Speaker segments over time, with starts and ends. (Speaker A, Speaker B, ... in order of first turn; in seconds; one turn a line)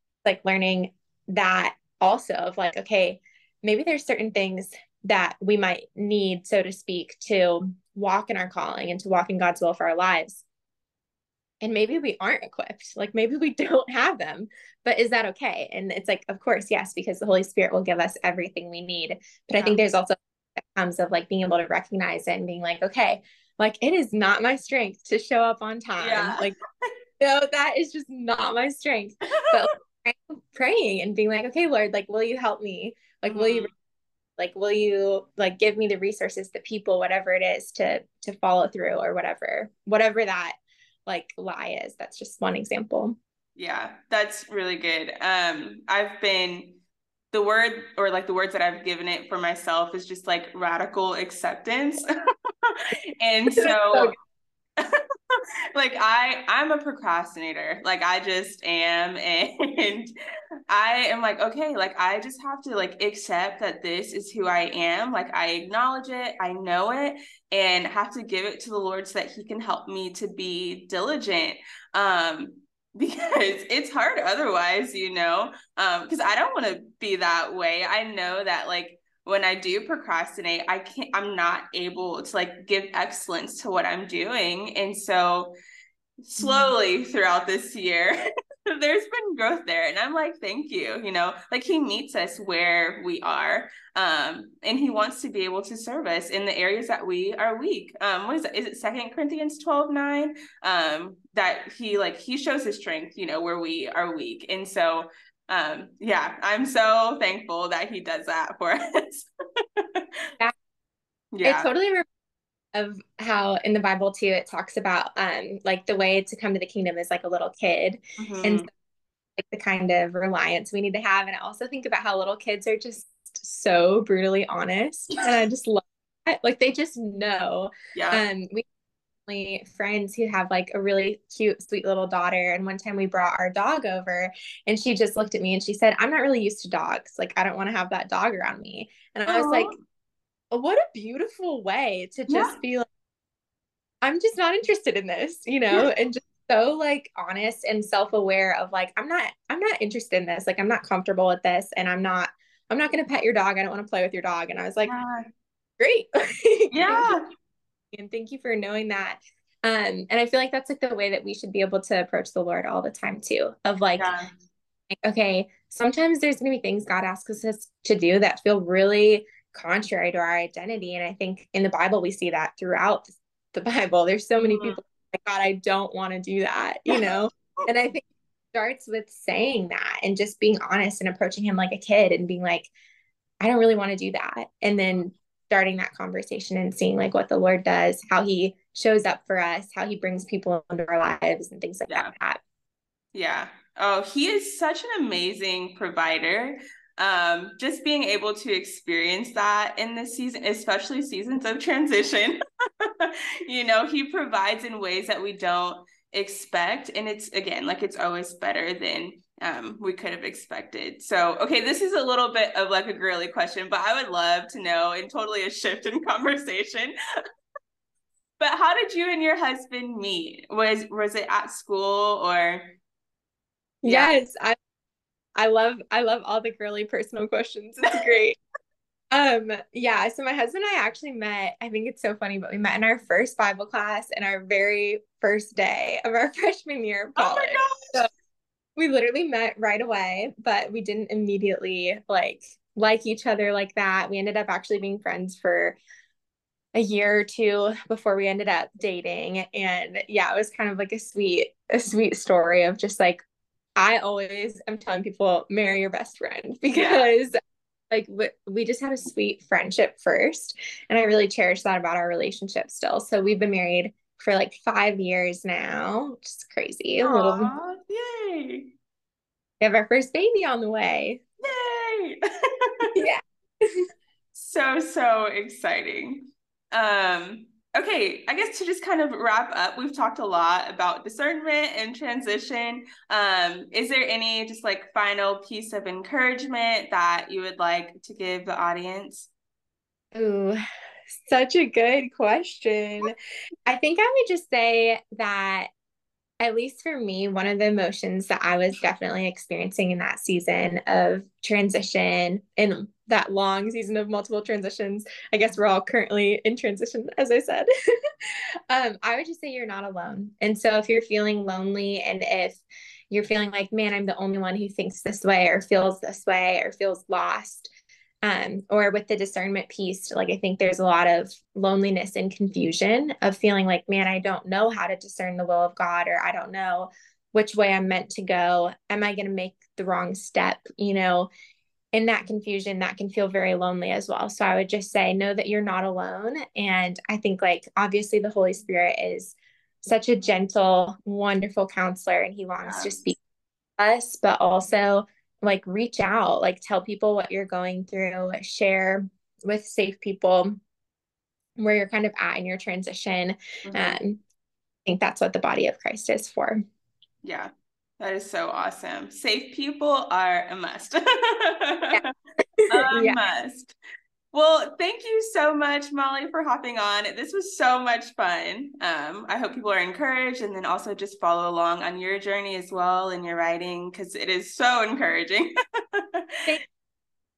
Speaker A: 0.2-10.4
Speaker A: 11.6-26.5
Speaker B: 26.0-26.5
Speaker A: 27.2-33.7
Speaker B: 29.4-29.7
Speaker B: 33.3-33.7
Speaker A: 34.4-43.2
Speaker B: 43.5-46.8
Speaker B: 47.3-52.0
Speaker B: 52.6-54.1
Speaker A: 53.5-54.1
Speaker B: 54.8-60.1
Speaker B: 60.7-85.5
Speaker B: 86.2-88.1
Speaker A: 86.4-86.7
Speaker B: 88.7-110.1
Speaker B: 111.3-111.7
Speaker A: 111.4-112.0
Speaker A: 112.7-118.7
Speaker B: 118.2-118.7
Speaker A: 119.4-128.6
Speaker B: 127.9-128.2
Speaker A: 129.2-139.7
Speaker B: 139.3-139.8
Speaker A: 140.5-142.9
Speaker B: 142.3-142.6
Speaker A: 144.0-154.9
Speaker B: 154.8-155.3
Speaker A: 155.8-157.2
Speaker B: 156.7-157.2
Speaker A: 157.9-164.1
Speaker B: 164.0-164.3
Speaker A: 164.9-182.7
Speaker B: 174.3-174.8
Speaker B: 176.9-177.6
Speaker A: 183.4-192.4
Speaker B: 191.9-192.1
Speaker B: 193.1-216.9
Speaker B: 218.4-222.8
Speaker A: 223.8-224.6
Speaker B: 223.8-224.1
Speaker A: 225.3-228.4
Speaker A: 229.1-238.1
Speaker B: 237.2-238.1
Speaker A: 238.8-245.8
Speaker A: 246.7-253.2
Speaker A: 253.8-257.4
Speaker B: 256.7-257.1
Speaker A: 257.9-267.5
Speaker B: 267.0-268.7
Speaker A: 269.6-271.2
Speaker B: 271.4-272.9
Speaker A: 272.9-273.8
Speaker B: 274.3-289.3
Speaker A: 290.1-293.1
Speaker A: 293.6-295.7
Speaker A: 296.4-307.7
Speaker A: 308.7-331.3
Speaker A: 331.9-343.2
Speaker B: 342.6-343.1
Speaker A: 343.8-350.6
Speaker A: 351.6-354.2
Speaker B: 353.6-354.0
Speaker A: 354.8-356.6
Speaker B: 357.2-362.1
Speaker A: 362.6-363.2
Speaker B: 362.7-363.7
Speaker B: 364.3-376.5